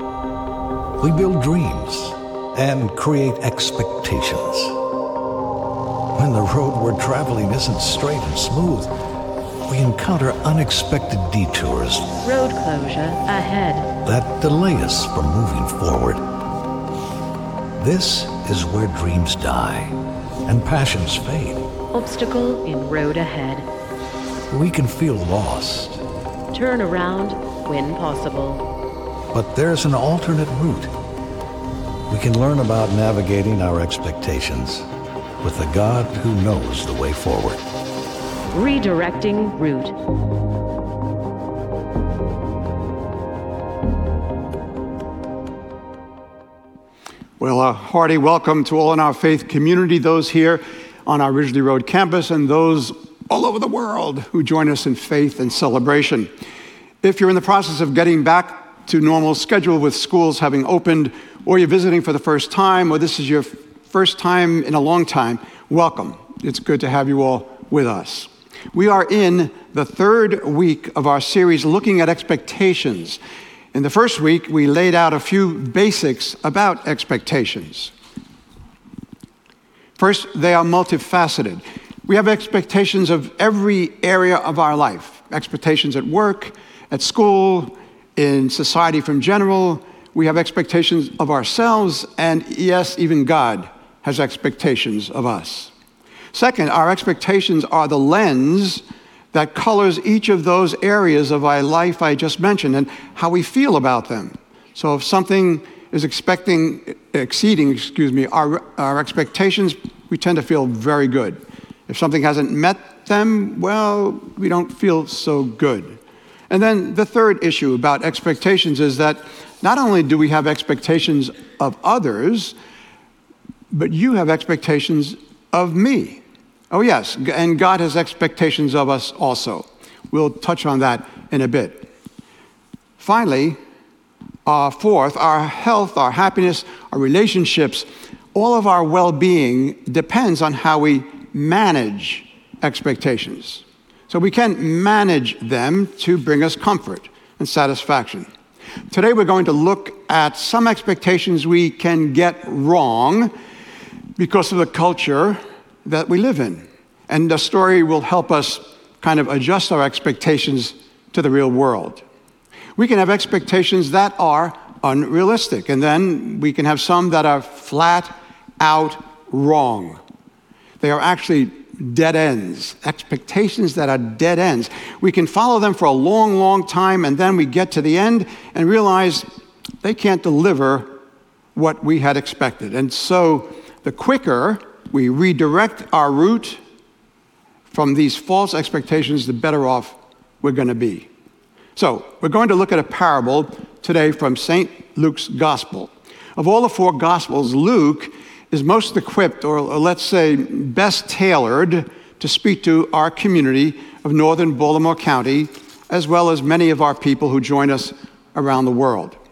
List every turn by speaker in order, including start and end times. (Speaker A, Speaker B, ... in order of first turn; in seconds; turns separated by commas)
Speaker A: 1.0-4.7, Speaker A: 6.2-8.9, Speaker A: 9.7-12.1, Speaker B: 12.2-13.9, Speaker A: 14.0-16.2, Speaker A: 17.8-19.9, Speaker A: 20.4-21.6, Speaker B: 21.9-23.6, Speaker A: 24.5-26.0, Speaker B: 26.5-28.6, Speaker A: 29.3-30.9, Speaker A: 32.1-34.9, Speaker A: 35.4-37.6, Speaker B: 38.5-39.9, Speaker C: 47.4-56.3, Speaker C: 57.0-73.2, Speaker C: 73.7-77.9, Speaker C: 80.0-95.7, Speaker C: 96.3-122.5, Speaker C: 123.7-131.9, Speaker C: 133.0-133.6, Speaker C: 134.4-148.3, Speaker C: 148.9-153.3, Speaker C: 154.2-162.0, Speaker C: 162.8-170.0, Speaker C: 170.8-179.2, Speaker C: 179.8-180.9, Speaker C: 181.5-186.6, Speaker C: 187.7-191.1, Speaker C: 191.8-209.2